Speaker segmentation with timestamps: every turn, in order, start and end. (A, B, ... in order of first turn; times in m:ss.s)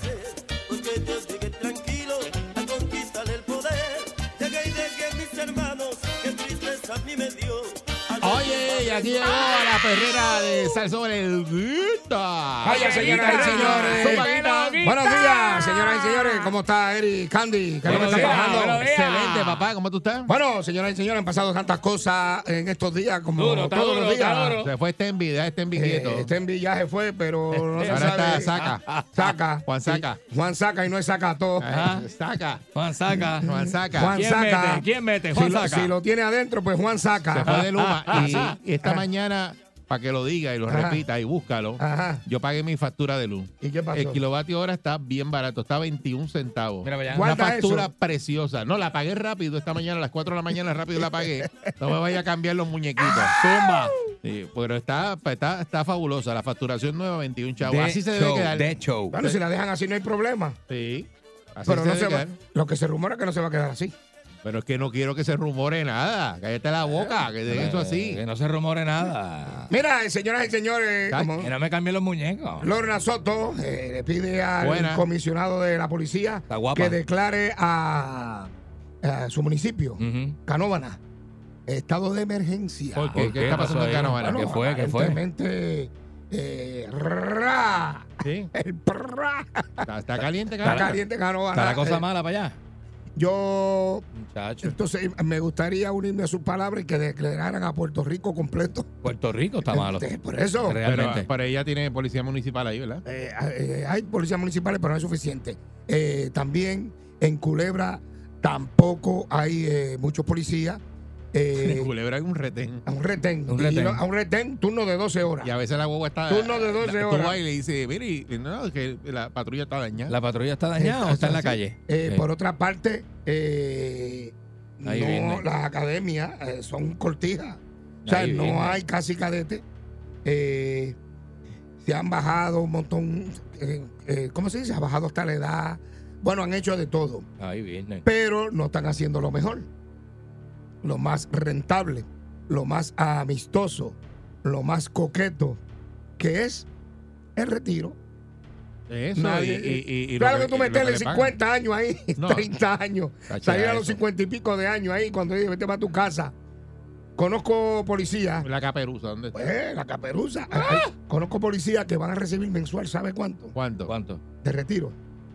0:00.7-0:09.0 A
0:08.2-0:14.8 B
0:12.6-0:14.3 C
0:12.7-0:16.5 D
0:14.8-0:18.8 C
0:17.8-0:19.7 D
0:17.8-0:20.3 B
0:20.3-0:24.6 C
0:23.4-0:24.7 D
0:24.6-0:26.3 B
0:25.7-0:31.7 C
0:27.6-0:29.3 D
0:27.8-0:28.8 B
0:29.6-0:30.2 B
0:31.6-0:32.6 B
0:31.7-0:32.1 D
0:32.7-0:33.5 D
0:33.4-0:34.2 B
0:33.8-0:39.0 C
0:34.1-0:35.9 D
0:37.3-0:53.4 B
0:37.4-0:38.5 D
0:40.7-0:41.0 C
0:41.8-0:42.2 C
0:43.6-0:44.2 C
0:46.8-0:47.3 D
0:47.1-0:47.9 C
0:51.4-0:51.7 C
0:53.3-0:54.0 D
0:54.2-0:59.3 B
0:57.6-0:59.2 D
0:59.1-1:00.6 C
1:00.7-1:02.4 B
1:01.6-1:03.9 C
1:04.4-1:08.2 B
1:07.4-1:09.7 D
1:09.7-1:11.5 C
1:11.4-1:12.7 D
1:12.6-1:18.5 C
1:14.6-1:15.0 B
1:16.5-1:17.0 D
1:19.0-1:21.0 C
1:20.0-1:20.4 D
1:21.7-1:29.9 C
1:23.0-1:25.2 D
1:23.0-1:24.5 B
1:28.2-1:28.5 B
1:29.9-1:31.0 B
1:30.6-1:32.0 C
1:30.6-1:31.0 D
1:31.5-1:32.6 D
1:33.2-1:34.0 C
1:34.1-1:34.8 D
1:34.6-1:39.0 C
1:39.0-1:40.1 D
1:39.6-1:40.8 C
1:40.6-1:41.3 D
1:40.8-1:43.0 B
1:43.0-1:50.8 C
1:51.3-1:51.9 C
1:51.6-1:52.8 B
1:52.8-1:55.5 C
1:53.5-1:54.0 D
1:55.4-2:00.1 B
1:56.3-1:57.4 C
2:00.1-2:02.2 D
2:00.8-2:09.6 C
2:04.8-2:05.4 D
2:08.0-2:08.8 D
2:10.2-2:11.0 C
2:11.8-2:17.3 C
2:17.4-2:18.0 D
2:18.0-2:19.7 C
2:20.8-2:25.6 C
2:26.2-2:26.7 C
2:27.4-2:28.0 C
2:28.9-2:31.4 B
2:29.1-2:36.3 C
2:32.2-2:32.5 B
2:33.3-2:34.0 B
2:37.2-2:38.5 C
2:38.4-2:39.4 B
2:39.3-2:43.5 C
2:43.5-2:43.9 B
2:43.8-2:44.2 D
2:44.4-2:45.0 C